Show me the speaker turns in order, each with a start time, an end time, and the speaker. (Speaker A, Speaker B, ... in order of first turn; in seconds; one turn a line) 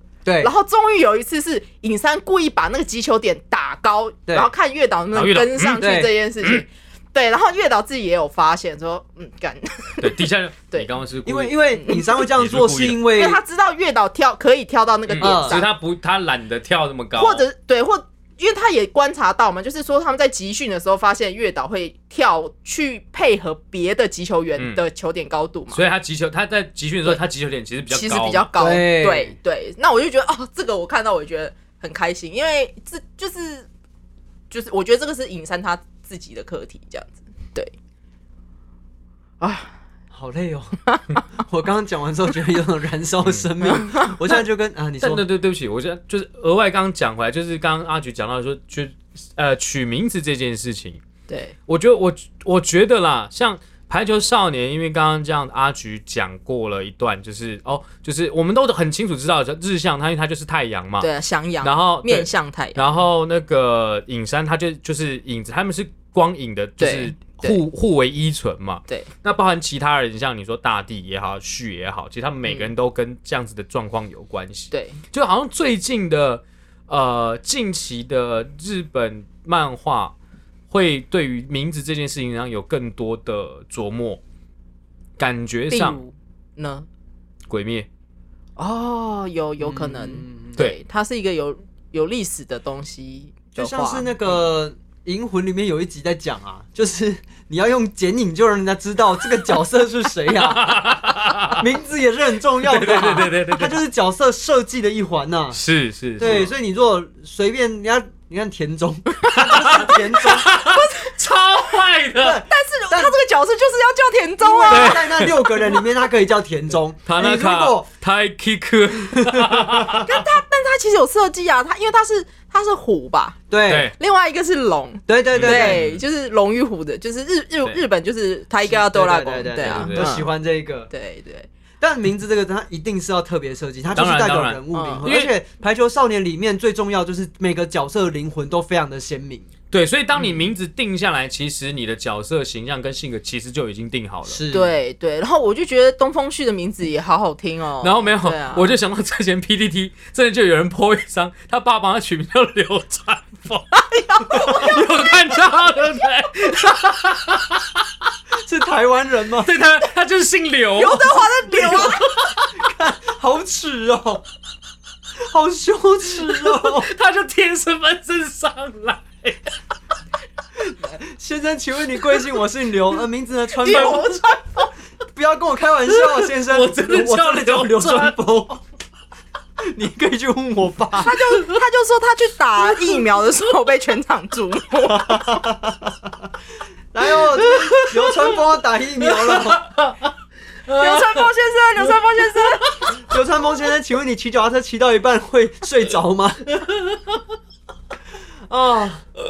Speaker A: 0.2-0.5
Speaker B: 0.4-10.9
Speaker C: 5.1-6.6
Speaker A: 5.8-6.1
Speaker C: 10.0-11.6
Speaker A: 11.2-13.4
Speaker B: 11.7-12.0
Speaker C: 12.1-13.0
Speaker B: 13.1-15.7
Speaker C: 15.1-17.4
Speaker A: 15.2-15.6
Speaker B: 17.1-25.8
Speaker C: 24.6-24.8
Speaker C: 25.7-28.5
Speaker B: 27.9-33.7
Speaker A: 28.6-29.4
Speaker B: 34.5-37.7
Speaker B: 39.4-39.7
Speaker A: 40.1-40.8
Speaker A: 41.3-45.2
Speaker B: 43.6-44.1
Speaker C: 45.0-51.0
Speaker B: 51.3-51.5
Speaker C: 51.7-61.1
Speaker B: 61.0-63.0
Speaker C: 61.6-80.1
Speaker B: 66.8-67.6
Speaker B: 74.7-75.0
Speaker C: 80.7-84.2
Speaker C: 85.2-86.0
Speaker B: 85.7-86.9
Speaker C: 87.5-87.9
Speaker B: 88.6-94.1
Speaker A: 89.6-90.6
Speaker A: 93.5-105.6
Speaker C: 100.3-101.6
Speaker C: 102.6-103.8
Speaker C: 105.5-106.5
Speaker A: 106.2-110.5
Speaker B: 109.2-111.1
Speaker C: 109.3-112.4
Speaker A: 112.2-113.1
Speaker B: 112.5-115.3
Speaker A: 114.4-117.9
Speaker C: 114.7-115.4
Speaker C: 117.0-120.1
Speaker A: 119.1-120.0
Speaker B: 120.0-123.4
Speaker A: 123.5-123.9
Speaker C: 123.7-123.9
Speaker B: 124.0-130.3
Speaker A: 125.1-125.8
Speaker C: 125.3-126.0
Speaker A: 128.6-130.9
Speaker C: 129.6-130.1
Speaker B: 130.9-131.5
Speaker A: 131.8-139.5
Speaker C: 133.9-135.3
Speaker B: 134.7-135.1
Speaker C: 139.7-144.4
Speaker A: 144.2-144.7
Speaker B: 144.5-148.7
Speaker C: 147.8-153.7
Speaker B: 153.7-155.0
Speaker C: 154.3-157.7
Speaker A: 158.4-159.5
Speaker C: 159.4-161.2
Speaker B: 160.7-162.1
Speaker A: 161.1-164.2
Speaker A: 165.2-166.9
Speaker C: 166.2-169.5
Speaker A: 170.6-174.2
Speaker B: 173.6-174.7
Speaker C: 173.7-174.1
Speaker A: 175.1-178.6
Speaker C: 175.9-178.2
Speaker A: 179.6-181.2
Speaker B: 181.0-185.4
Speaker A: 184.8-186.3
Speaker A: 186.9-189.6
Speaker C: 187.3-188.4
Speaker C: 189.0-190.1
Speaker C: 190.7-191.3
Speaker B: 190.7-192.9
Speaker C: 191.8-193.0
Speaker A: 192.9-196.5
Speaker C: 196.7-197.2
Speaker A: 198.5-199.1